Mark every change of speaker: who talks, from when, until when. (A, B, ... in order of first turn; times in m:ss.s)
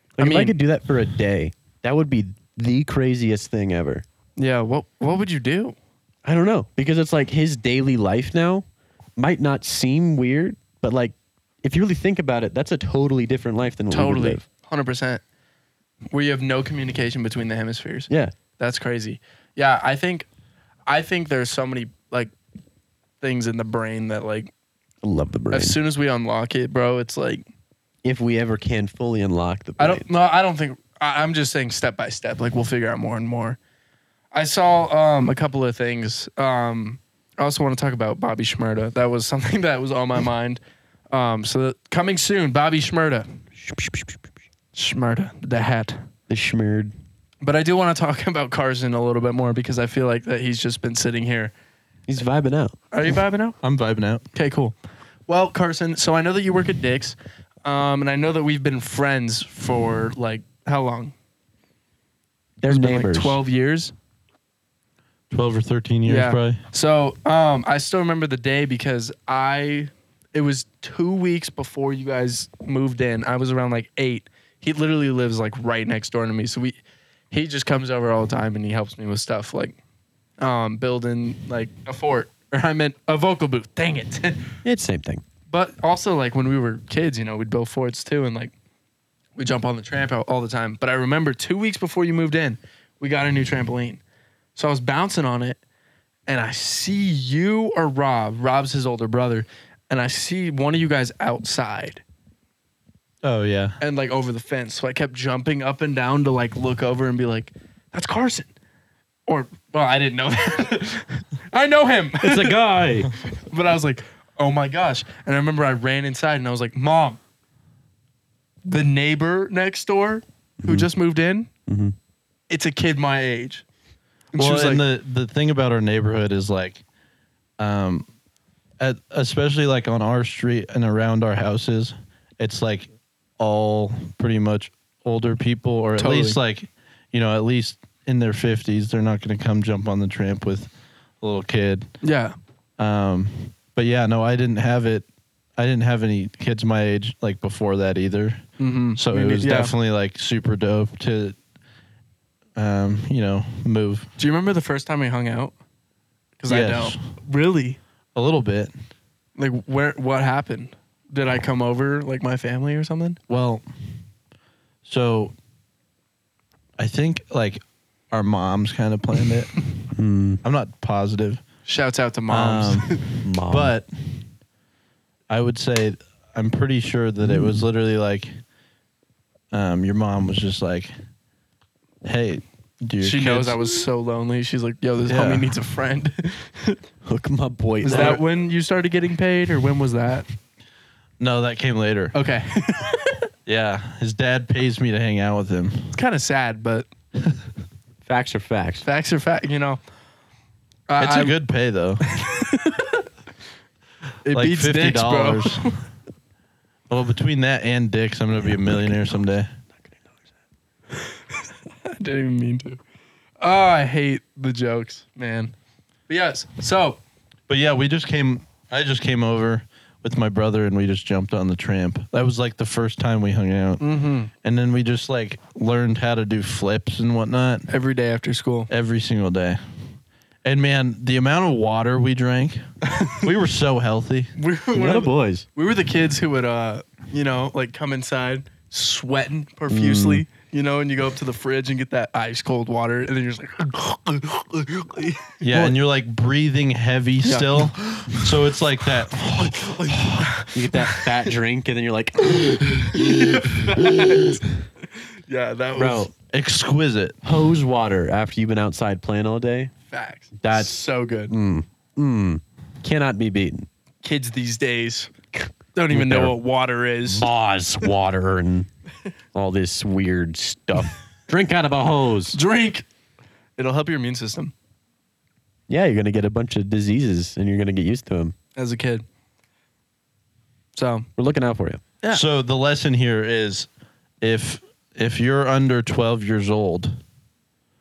0:00.2-0:00.6 A
0:00.2-0:04.0 B
0:04.4-0:05.8 A
0:06.2-0:08.6 B
0:09.2-0:14.4 B
0:13.9-0:15.2 A
0:16.1-0:20.3 A
0:18.1-0:18.3 B
0:20.9-0:22.3 A
0:23.2-0:24.5 A
0:25.0-0:25.8 B
0:25.5-0:27.4 A
0:28.0-0:30.1 B
0:29.8-0:33.6 A
0:34.3-0:43.4 A
0:43.6-0:44.2 B
0:44.7-0:46.0 A
0:46.3-0:46.9 B
0:47.4-0:51.5 A
0:52.1-0:52.8 B
0:52.9-0:53.6 A
0:53.6-0:54.2 C
0:54.3-0:54.7 A
0:55.3-1:01.1 A
1:02.6-1:03.4 B
1:02.7-1:03.9 A
1:05.3-1:06.6 C
1:06.0-1:16.8 A
1:17.3-1:19.8 A
1:20.4-1:24.5 A
1:24.6-1:25.2 B
1:25.5-1:28.5 A
1:29.4-1:34.0 A
1:34.6-1:35.6 A
1:36.3-1:42.0 A
1:43.2-1:43.8 C
1:43.8-1:48.5 A
1:49.3-1:52.6 A
1:52.2-1:53.1 B
1:53.3-1:57.2 A
1:58.6-2:01.5 A
2:00.6-2:00.9 B
2:01.7-2:02.0 B
2:02.5-2:03.6 A
2:04.3-2:04.8 A
2:04.4-2:06.8 C
2:07.6-2:08.1 C
2:08.8-2:21.9 C
2:16.0-2:16.4 A
2:22.0-2:22.3 A
2:22.8-2:25.0 C
2:25.6-2:28.4 C
2:28.6-2:29.7 A
2:29.0-2:31.4 C
2:32.6-2:34.1 C
2:34.2-2:35.5 A
2:36.4-2:37.8 A
2:36.5-2:37.0 C
2:38.1-2:38.7 C
2:39.4-2:43.2 A
2:43.3-2:43.6 C
2:44.8-2:45.3 C
2:46.8-2:49.7 C
2:49.9-2:50.4 B
2:50.4-2:51.4 C
2:51.6-2:53.0 A
2:52.3-2:54.2 C
2:53.2-2:53.7 B
2:55.3-2:58.4 C
2:57.2-2:57.6 B
2:59.5-3:00.9 C
3:02.0-3:03.6 C
3:03.0-3:06.8 A
3:05.1-3:05.5 C
3:07.0-3:08.2 B
3:07.8-3:10.2 A
3:07.9-3:08.2 C
3:11.2-3:12.1 C
3:12.1-3:13.2 A
3:13.4-3:15.9 C
3:15.9-3:16.9 A
3:18.0-3:18.8 B
3:18.8-3:19.8 A
3:20.9-3:21.3 A
3:21.0-3:22.0 C
3:22.0-3:23.0 A
3:24.2-3:25.8 A
3:24.3-3:25.7 C
3:26.9-3:29.5 C
3:28.4-3:29.2 B
3:31.4-3:32.8 A
3:33.4-3:35.5 A
3:36.1-3:37.0 A
3:37.5-3:43.8 C
3:43.8-3:44.3 A
3:44.4-3:47.7 C
3:47.7-3:48.7 A
3:48.7-3:49.6 C
3:50.4-3:54.3 C
3:52.8-3:53.3 A
3:54.4-4:05.4 A
3:54.7-3:55.4 B
3:59.7-4:00.2 B
4:05.4-4:10.3 C
4:05.5-4:05.8 B
4:07.2-4:08.2 A
4:09.3-4:11.3 A
4:10.5-4:14.1 B
4:12.8-4:16.1 A
4:15.8-4:16.1 B
4:16.3-4:17.2 C
4:17.2-4:19.7 B
4:19.9-4:21.3 A
4:20.4-4:23.7 B
4:24.0-4:25.1 A
4:25.7-4:27.3 A
4:25.9-4:26.4 B
4:27.0-4:28.7 B
4:29.3-4:32.4 B
4:32.3-4:32.8 A
4:33.6-4:34.5 A
4:35.7-4:38.3 B
4:38.6-4:39.0 A
4:40.8-4:41.1 A
4:41.2-4:41.8 B
4:42.1-4:43.7 C
4:44.2-4:47.0 C